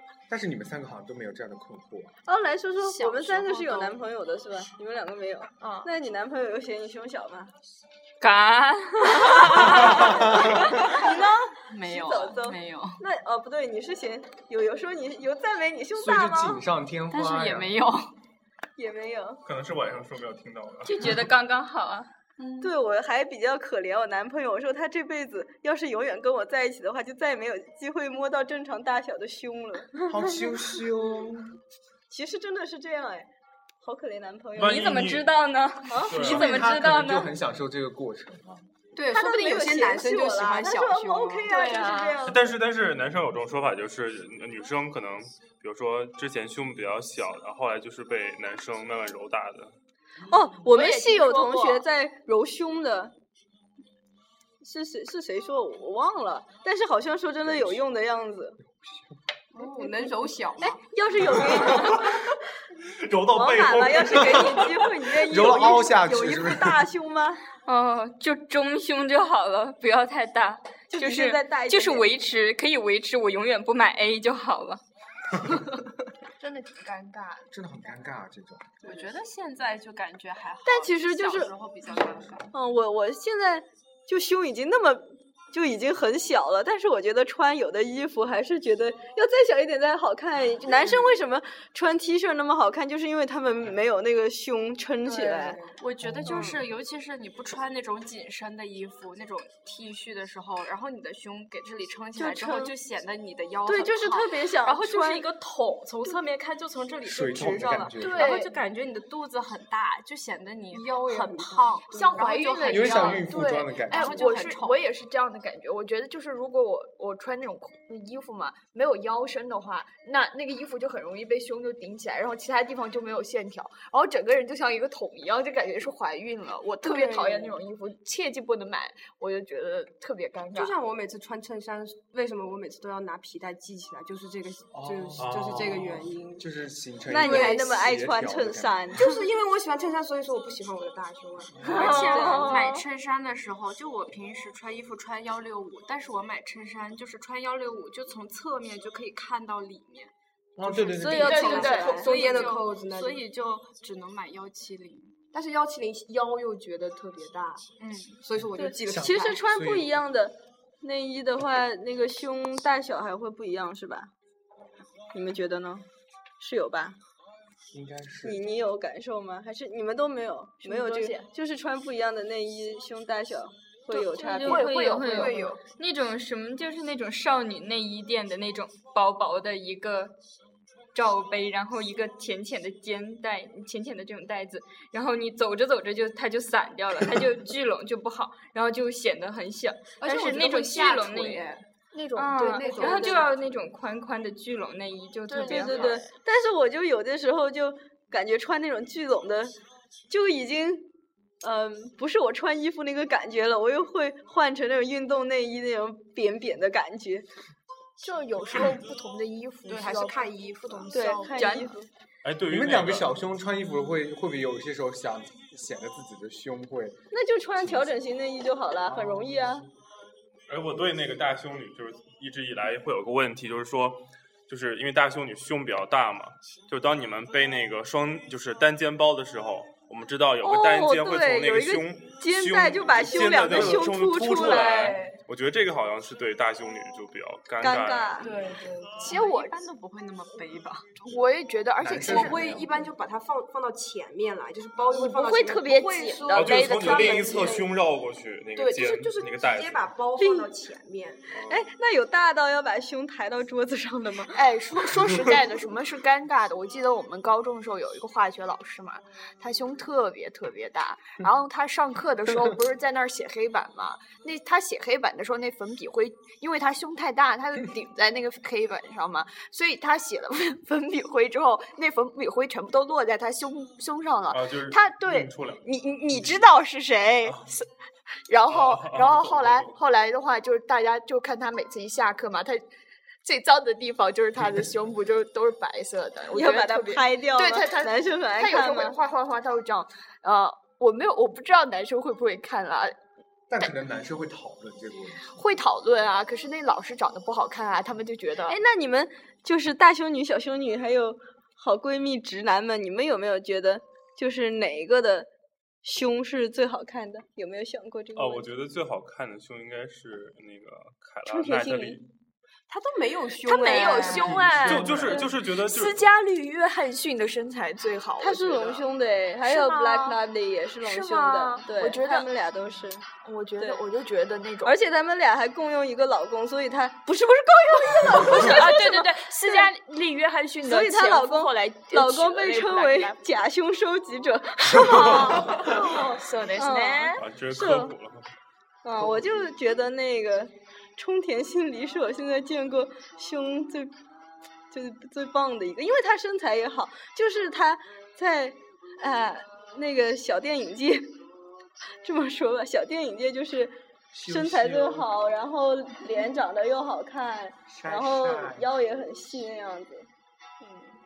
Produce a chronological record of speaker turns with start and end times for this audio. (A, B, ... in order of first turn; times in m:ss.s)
0:00.3-0:02.1 A
0:02.2-0:07.5 B
0:02.8-0:04.0 C
0:05.6-0:05.9 D
0:08.2-0:10.1 E
0:09.1-0:16.6 B
0:09.8-0:10.8 A
0:10.8-0:13.0 C
0:15.9-0:17.8 A
0:17.1-0:18.1 C
0:18.8-0:19.4 B
0:19.4-0:21.1 F
0:20.8-0:22.1 E
0:22.4-0:22.8 C
0:22.6-0:30.5 B
0:30.0-0:31.6 A
0:32.1-0:33.3 B
0:33.8-0:34.9 B
0:34.6-0:35.3 F
0:34.6-0:37.3 E
0:35.9-0:36.4 B
0:36.1-0:36.6 F
0:36.1-0:38.6 A
0:38.9-0:41.9 G
0:39.1-0:42.5 B
0:41.5-0:42.1 D
0:42.2-0:49.7 F
0:50.3-0:53.1 B
0:50.7-0:51.8 D
0:54.6-0:58.6 B
0:57.5-0:57.8 A
0:59.5-1:00.8 G
0:59.7-1:02.3 B
1:03.0-1:04.8 F
1:03.3-1:07.4 B
1:04.2-1:04.6 A
1:05.2-1:06.8 A
1:07.6-1:14.8 E
1:10.9-1:12.1 B
1:16.4-1:17.5 D
1:17.5-1:18.8 A
1:18.8-1:22.5 C
1:20.6-1:21.5 B
1:22.5-1:35.6 B
1:35.0-1:35.8 G
1:35.7-1:54.8 C
1:36.1-1:36.4 A
1:36.3-1:36.6 B
1:42.2-1:42.7 B
1:43.6-1:45.3 B
1:47.0-1:48.4 A
1:48.0-1:48.6 D
1:50.7-1:52.3 G
1:51.9-2:10.8 D
1:52.7-1:54.3 A
2:06.8-2:07.6 G
2:10.5-2:16.5 G
2:14.7-2:19.0 A
2:15.2-2:15.8 F
2:17.1-2:19.2 B
2:17.2-2:17.8 G
2:18.9-2:22.5 G
2:21.6-2:30.1 C
2:21.7-2:22.8 B
2:30.6-2:31.4 A
2:30.6-2:35.2 C
2:31.0-2:32.0 B
2:31.1-2:32.2 D
2:31.2-2:33.2 G
2:35.3-2:37.6 G
2:37.8-2:38.2 C
2:38.2-2:39.4 G
2:38.6-2:44.1 B
2:38.8-2:39.9 A
2:45.1-2:45.8 B
2:46.4-2:47.0 B
2:47.7-2:48.5 A
2:48.2-2:55.3 B
2:50.6-2:51.3 D
2:53.9-2:55.6 D
2:54.2-3:00.1 E
2:55.0-2:55.6 G
3:00.9-3:11.5 E
3:10.0-3:11.6 G
3:11.9-3:13.5 D
3:12.2-3:15.9 E
3:12.4-3:13.4 G
3:15.3-3:16.1 D
3:15.4-3:19.6 B
3:20.1-3:20.9 B
3:21.4-3:27.2 B
3:28.0-3:31.7 D
3:29.7-3:31.2 G
3:30.9-3:31.9 B
3:31.4-3:31.7 E
3:32.2-3:33.1 F
3:32.5-3:37.0 A
3:37.1-3:39.6 B
3:37.6-3:37.9 A
3:38.9-3:39.5 A
3:40.5-3:58.2 F
3:50.4-3:55.0 B
3:54.4-3:55.2 G
3:57.6-3:58.3 B
3:58.2-3:59.1 G
3:58.3-4:01.2 C
3:59.0-3:59.6 D
4:01.0-4:02.6 D
4:01.8-4:02.7 A
4:02.0-4:07.7 G
4:04.9-4:07.6 D
4:06.3-4:09.9 F
4:08.6-4:11.2 G
4:10.2-4:10.5 B
4:11.3-4:11.7 F
4:11.5-4:14.4 B
4:14.3-4:37.7 D
4:34.3-4:36.4 F
4:38.3-4:42.6 D
4:38.5-4:39.8 F
4:43.2-4:53.0 D
4:46.3-4:49.0 B
4:53.5-4:55.3 A
4:55.3-4:58.6 D
4:58.5-5:05.3 B
5:05.8-5:08.4 B
5:08.2-5:12.0 F
5:11.3-5:12.0 B
5:12.7-5:15.2 G
5:13.4-5:18.9 D
5:14.1-5:16.1 F
5:18.2-5:23.0 B
5:19.4-5:20.2 D
5:20.8-5:22.3 D
5:23.2-5:24.7 D
5:23.6-5:23.8 B
5:24.6-5:29.7 B
5:28.2-5:33.2 D
5:30.6-5:37.9 B
5:34.8-5:37.2 D
5:37.2-5:38.2 F
5:38.8-5:43.9 B
5:44.7-5:51.1 B
5:52.0-6:00.1 B
5:54.1-5:55.3 A
5:57.7-5:58.7 A